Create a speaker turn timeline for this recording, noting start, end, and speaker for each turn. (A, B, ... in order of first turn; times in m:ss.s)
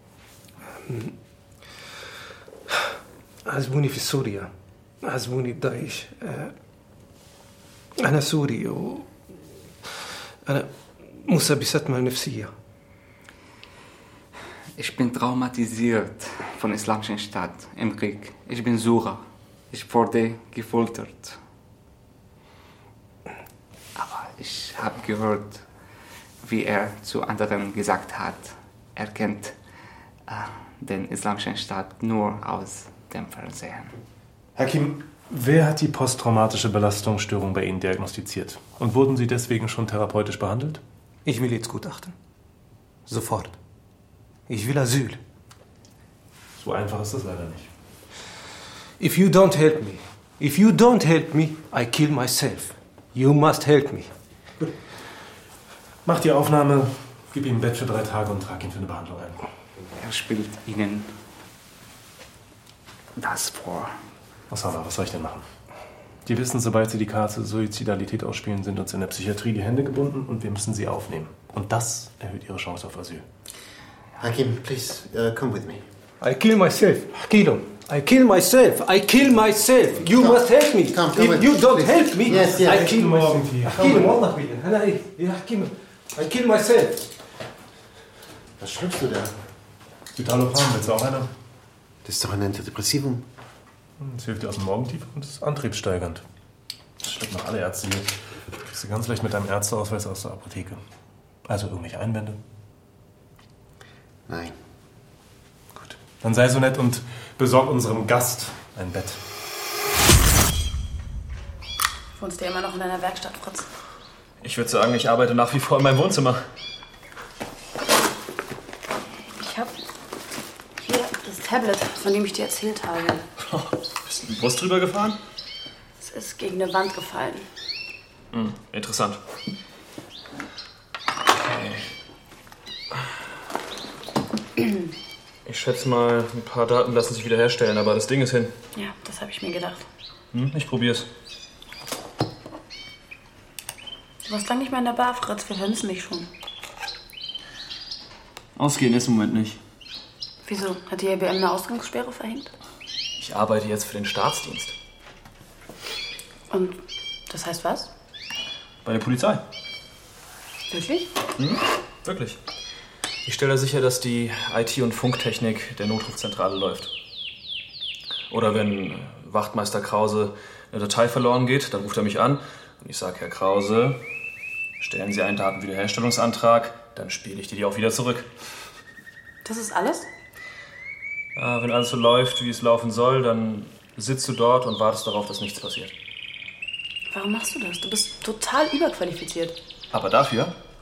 0:03.5-0:04.4 A
0:05.1-0:06.4 A
0:08.1-0:09.0 A
0:11.3-0:12.5 A
0:14.8-0:21.4 B
0:24.0-0:25.7 B
0:26.4-0:29.6 B
0:30.3-0:33.9 B
0:34.6-0:40.8 C
0:41.3-0:42.1 A
0:43.1-0:43.5 A
0:44.5-0:45.2 A
0:46.6-0:47.7 C
0:49.0-0:54.0 A
0:56.0-0:59.4 C
1:00.0-1:01.2 B
1:03.2-1:04.0 B
1:04.5-1:05.5 C
1:06.3-1:13.2 C
1:14.2-1:15.8 D
1:16.2-1:27.0 A
1:20.0-1:22.9 D
1:22.6-1:24.2 C
1:28.6-1:29.3 D
1:30.2-1:31.3 C
1:32.0-1:33.3 D
1:34.0-1:36.2 C
1:37.0-1:40.8 C
1:41.4-1:42.4 C
1:44.3-1:44.6 D
1:45.8-1:49.2 C
1:52.2-1:53.7 E
1:54.4-1:56.4 F
1:59.4-1:59.8 E
2:00.8-2:03.2 E
2:03.5-2:05.2 F
2:06.0-2:07.5 E
2:08.3-2:09.2 F
2:11.4-2:11.9 F
2:15.5-2:18.6 F
2:18.7-2:19.9 E
2:20.3-2:21.1 F
2:24.2-2:26.3 E
2:28.6-2:29.6 F
2:30.4-2:32.5 E
2:33.2-2:34.8 F
2:36.5-2:37.9 E
2:38.8-2:39.4 F
2:40.7-2:41.1 E
2:41.4-2:42.4 F
2:43.3-2:46.9 F
2:48.3-2:54.0 F
2:54.8-2:58.3 F
2:59.4-3:00.1 E
3:01.4-3:05.9 F
3:07.1-3:09.6 E
3:09.9-3:10.6 F